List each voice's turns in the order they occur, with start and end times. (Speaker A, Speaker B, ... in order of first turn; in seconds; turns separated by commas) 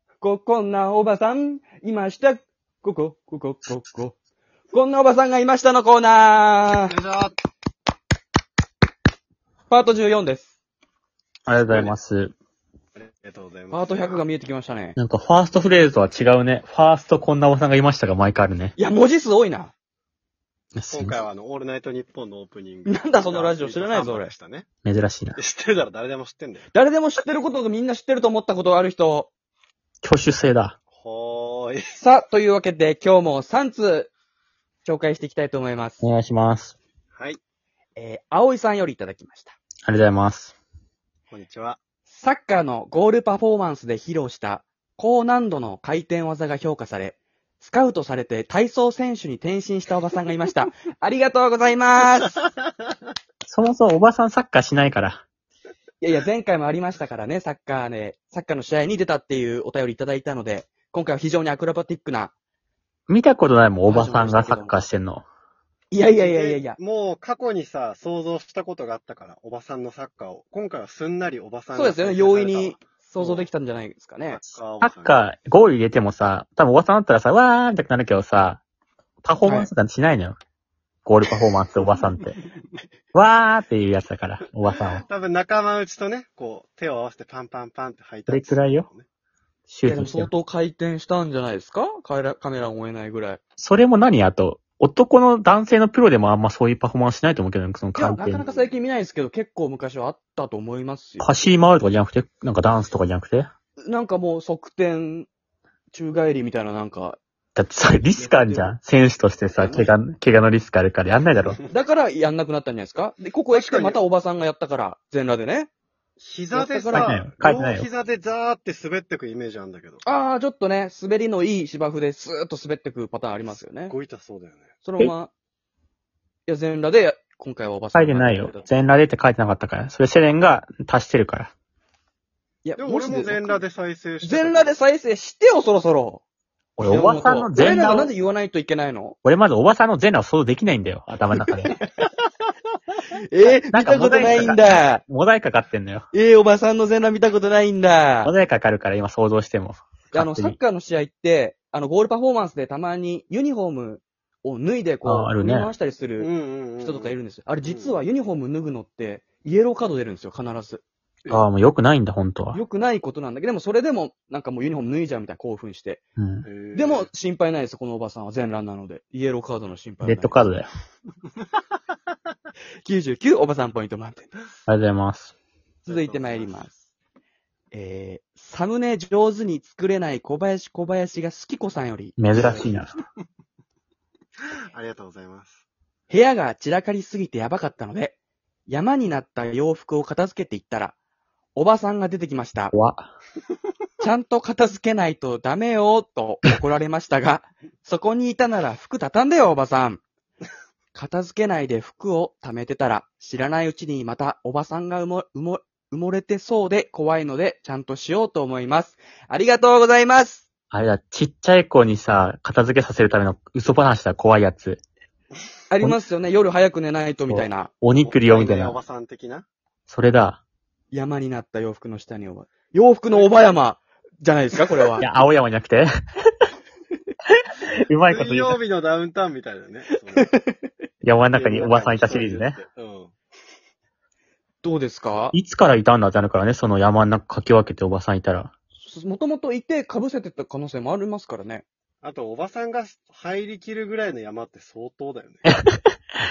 Speaker A: 0.2-4.2, Speaker A: 4.7-6.9, Speaker B: 6.9-7.3, Speaker A: 9.7-10.5, Speaker C: 11.5-12.3, Speaker B: 11.5-11.9, Speaker B: 12.9-14.2, Speaker A: 13.7-15.0, Speaker C: 14.9-18.7, Speaker A: 18.8-19.7, Speaker C: 20.7-21.1, Speaker B: 20.9-24.6, Speaker A: 22.9-24.3, Speaker C: 24.8-25.4, Speaker B: 25.4-26.7, Speaker A: 26.7-29.3, Speaker C: 30.0-30.8, Speaker B: 30.9-32.0, Speaker A: 32.0-34.1, Speaker A: 34.8-36.1, Speaker C: 36.0-36.8, Speaker A: 38.0-39.6, Speaker C: 39.8-40.5, Speaker B: 41.3-41.8, Speaker A: 42.1-52.4, Speaker C: 53.5-55.2, Speaker A: 56.0-62.3, Speaker C: 63.1-65.2, Speaker A: 63.8-64.8, Speaker A: 65.9-66.8, Speaker B: 66.1-73.5, Speaker A: 71.7-74.4, Speaker B: 74.3-75.2, Speaker C: 74.5-78.6, Speaker C: 79.2-80.3, Speaker A: 79.4-79.7, Speaker C: 81.0-82.3, Speaker C: 83.1-85.0, Speaker B: 85.0-89.0, Speaker C: 88.3-88.9, Speaker C: 89.7-90.3, Speaker A: 89.8-93.4, Speaker C: 93.6-98.4, Speaker A: 98.0-101.3, Speaker B: 98.4-98.8, Speaker C: 101.2-103.5, Speaker A: 103.8-105.3, Speaker A: 105.9-107.2, Speaker C: 107.5-111.6, Speaker A: 108.2-108.7, Speaker A: 109.5-109.9, Speaker A: 111.7-115.7, Speaker B: 113.5-114.0, Speaker B: 116.2-120.0, Speaker A: 116.5-117.2, Speaker C: 116.9-117.9, Speaker A: 120.0-123.9, Speaker B: 123.5-124.7, Speaker A: 124.8-125.3, Speaker A: 126.5-128.7, Speaker C: 127.9-131.5, Speaker A: 132.6-133.6, Speaker B: 132.8-134.7, Speaker A: 134.2-136.2, Speaker C: 136.8-138.1, Speaker A: 136.8-139.2, Speaker C: 139.2-141.7, Speaker A: 141.5-141.8, Speaker A: 143.3-145.0, Speaker C: 143.7-146.1, Speaker A: 146.1-148.3, Speaker C: 148.2-150.6, Speaker A: 150.1-156.3, Speaker C: 155.0-155.7, Speaker B: 156.2-158.0, Speaker A: 156.8-160.8, Speaker C: 161.3-162.6, Speaker A: 162.5-166.0, Speaker C: 166.2-166.5, Speaker B: 166.4-167.1, Speaker A: 166.7-170.4, Speaker C: 170.0-170.7, Speaker A: 172.8-174.3, Speaker C: 174.7-175.3, Speaker B: 175.8-176.6, Speaker A: 175.9-176.7, Speaker A: 177.7-182.2, Speaker C: 182.2-182.9, Speaker B: 182.3-182.8, Speaker B: 184.7-185.6, Speaker A: 186.1-188.2, Speaker A: 188.7-190.9, Speaker A: 191.5-192.7, Speaker C: 192.7-193.1, Speaker A: 194.0-200.0, Speaker A: 200.9-210.4, Speaker C: 210.7-214.8, Speaker A: 215.7-217.7, Speaker C: 217.3-218.8, Speaker B: 218.0-219.4, Speaker C: 219.9-220.4, Speaker A: 220.9-225.1, Speaker B: 223.1-223.4, Speaker C: 225.0-225.9, Speaker C: 227.3-228.6, Speaker B: 228.1-230.3, Speaker A: 230.1-230.7, Speaker C: 231.0-232.6, Speaker B: 231.3-233.1, Speaker A: 234.6-235.3, Speaker C: 235.3-238.5, Speaker A: 238.8-241.6, Speaker B: 242.0-245.5, Speaker C: 245.4-245.9